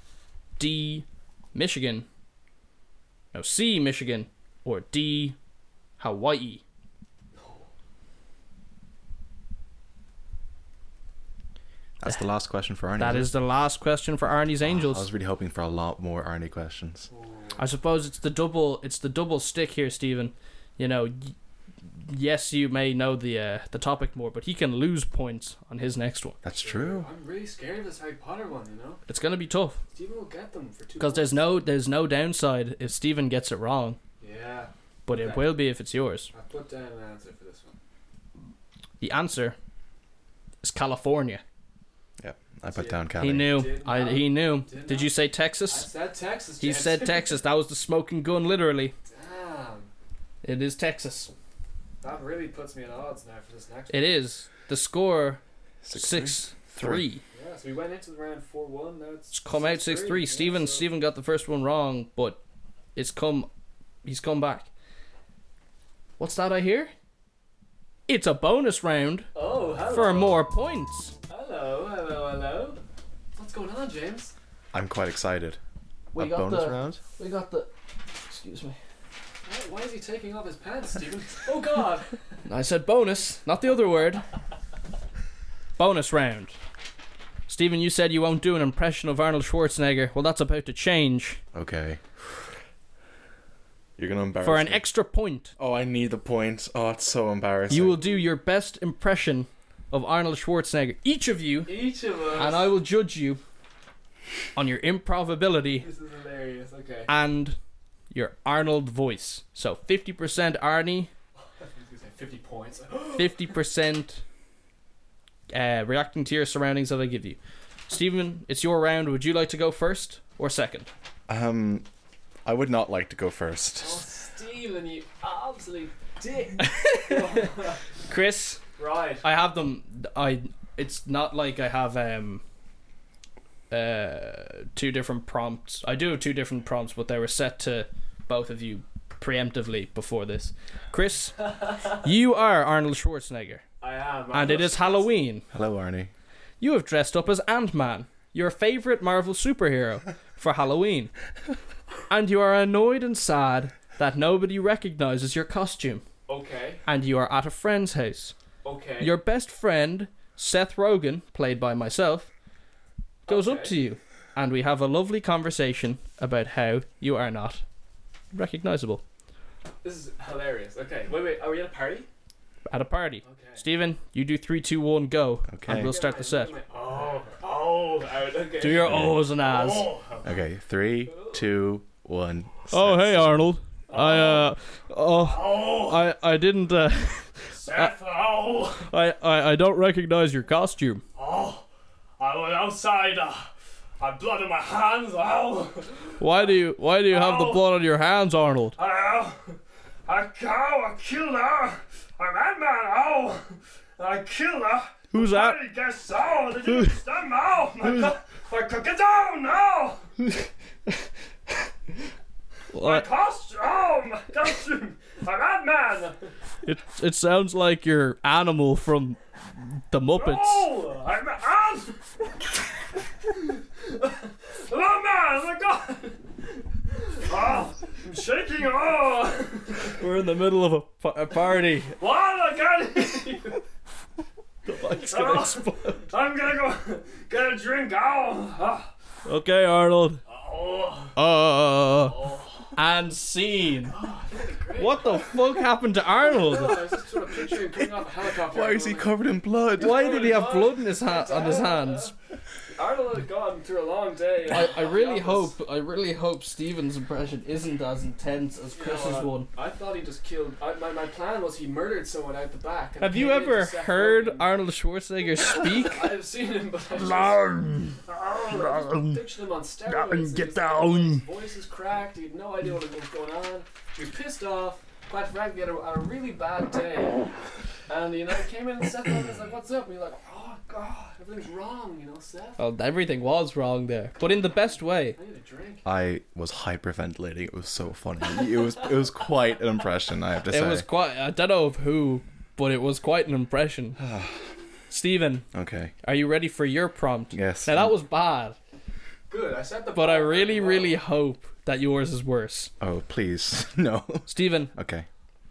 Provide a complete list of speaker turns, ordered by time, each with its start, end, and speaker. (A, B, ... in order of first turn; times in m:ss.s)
0:00.6-0:02.1 A
0:03.3-0:05.4 A
0:06.0-0:06.6 A
0:07.3-0:07.7 B
0:12.0-0:13.3 C
0:13.0-0:15.1 A
0:14.6-0:17.1 C
0:17.1-0:17.6 B
0:17.6-0:21.4 A
0:21.9-0:26.4 A
0:26.4-0:27.1 C
0:26.6-0:29.0 B
0:29.1-0:29.8 A
0:29.9-0:31.6 B
0:31.0-0:34.0 A
0:34.2-0:35.6 B
0:35.1-0:36.3 A
0:36.3-0:37.8 B
0:39.0-0:39.6 A
0:40.6-0:41.4 A
0:42.2-0:43.6 C
0:42.7-0:45.1 B
0:43.2-0:45.9 A
0:45.7-0:47.4 B
0:46.6-0:48.9 A
0:49.1-0:49.9 B
0:50.4-0:51.3 A
0:52.0-0:54.2 B
0:53.9-0:55.4 A
0:55.8-0:57.0 C
0:55.9-0:57.2 A
0:57.3-1:00.9 B
0:59.3-1:02.4 A
1:03.0-1:03.5 A
1:04.0-1:04.7 A
1:06.2-1:06.9 A
1:08.1-1:09.3 A
1:09.4-1:10.4 B
1:09.9-1:11.2 A
1:11.3-1:12.8 B
1:13.4-1:14.3 B
1:14.7-1:15.6 C
1:16.1-1:18.8 A
1:16.2-1:17.0 C
1:19.4-1:22.2 B
1:22.5-1:24.2 A
1:25.8-1:26.6 A
1:27.5-1:31.4 A
1:31.5-1:32.0 C
1:34.0-1:34.8 C
1:34.4-1:35.5 A
1:35.6-1:38.0 C
1:37.7-1:41.8 A
1:41.7-1:42.7 B
1:42.4-1:43.4 A
1:44.6-1:45.9 A
1:45.8-1:47.1 B
1:47.1-1:47.6 A
1:48.1-1:51.1 A
1:51.6-1:53.6 B
1:53.2-1:54.2 A
1:55.5-2:00.9 A
2:01.3-2:01.9 C
2:02.4-2:04.0 C
2:03.8-2:07.8 B
2:06.6-2:07.6 A
2:08.1-2:08.6 A
2:08.8-2:09.2 B
2:09.2-2:12.4 A
2:13.7-2:23.6 A
2:21.4-2:22.0 B
2:23.8-2:25.2 B
2:24.3-2:25.5 A
2:25.5-2:26.1 C
2:26.6-2:31.1 A
2:32.1-2:36.0 A
2:36.3-2:36.8 B
2:36.9-2:38.3 A
2:38.6-2:39.2 B
2:39.0-2:42.3 A
2:43.3-2:43.8 B
2:43.3-2:47.6 A
2:48.3-2:49.0 A
2:49.8-2:52.1 B
2:52.7-2:56.5 A
2:53.2-2:53.7 B
2:55.5-2:55.9 C
2:55.7-3:00.4 B
2:58.6-3:00.0 A
2:58.8-2:59.2 C
3:00.2-3:03.4 C
3:01.1-3:01.4 B
3:02.7-3:07.9 A
3:03.9-3:04.5 B
3:05.2-3:06.1 B
3:07.5-3:08.9 B
3:08.8-3:11.0 A
3:11.2-3:11.7 B
3:12.2-3:17.7 B
3:16.2-3:18.8 A
3:18.8-3:30.1 B
3:25.1-3:25.6 A
3:26.7-3:27.0 A
3:27.8-3:28.1 A
3:30.2-3:31.0 A
3:32.7-3:33.1 A
3:32.8-3:36.3 B
3:36.6-3:40.7 A
3:40.1-3:42.0 B
3:43.3-3:50.0 B
3:49.9-3:52.0 A
3:52.0-3:53.6 B
3:54.7-3:56.0 A
3:54.9-3:58.9 B
3:59.3-4:00.2 A
4:00.3-4:01.2 B
4:01.2-4:04.0 A
4:02.0-4:02.7 B
4:03.9-4:05.4 B
4:04.8-4:06.8 A
4:06.3-4:09.1 B
4:07.8-4:10.0 C
4:09.8-4:12.1 B
4:09.8-4:12.1 A
4:12.7-4:15.6 B
4:14.5-4:19.5 A
4:18.8-4:24.5 B
4:23.0-4:26.2 A
4:25.4-4:42.6 B
4:27.0-4:29.2 A
4:29.9-4:31.2 A
4:42.6-4:45.2 A
4:44.3-4:45.8 B
4:45.8-4:50.9 C
4:48.3-4:48.9 B
4:50.5-4:54.0 A
4:54.0-4:54.5 C
4:54.9-4:55.5 A
4:55.5-4:55.9 C
4:56.0-4:58.6 A
4:57.3-4:57.9 C
4:59.3-5:01.0 B
5:00.0-5:02.7 A
5:02.8-5:05.1 C
5:04.3-5:04.7 A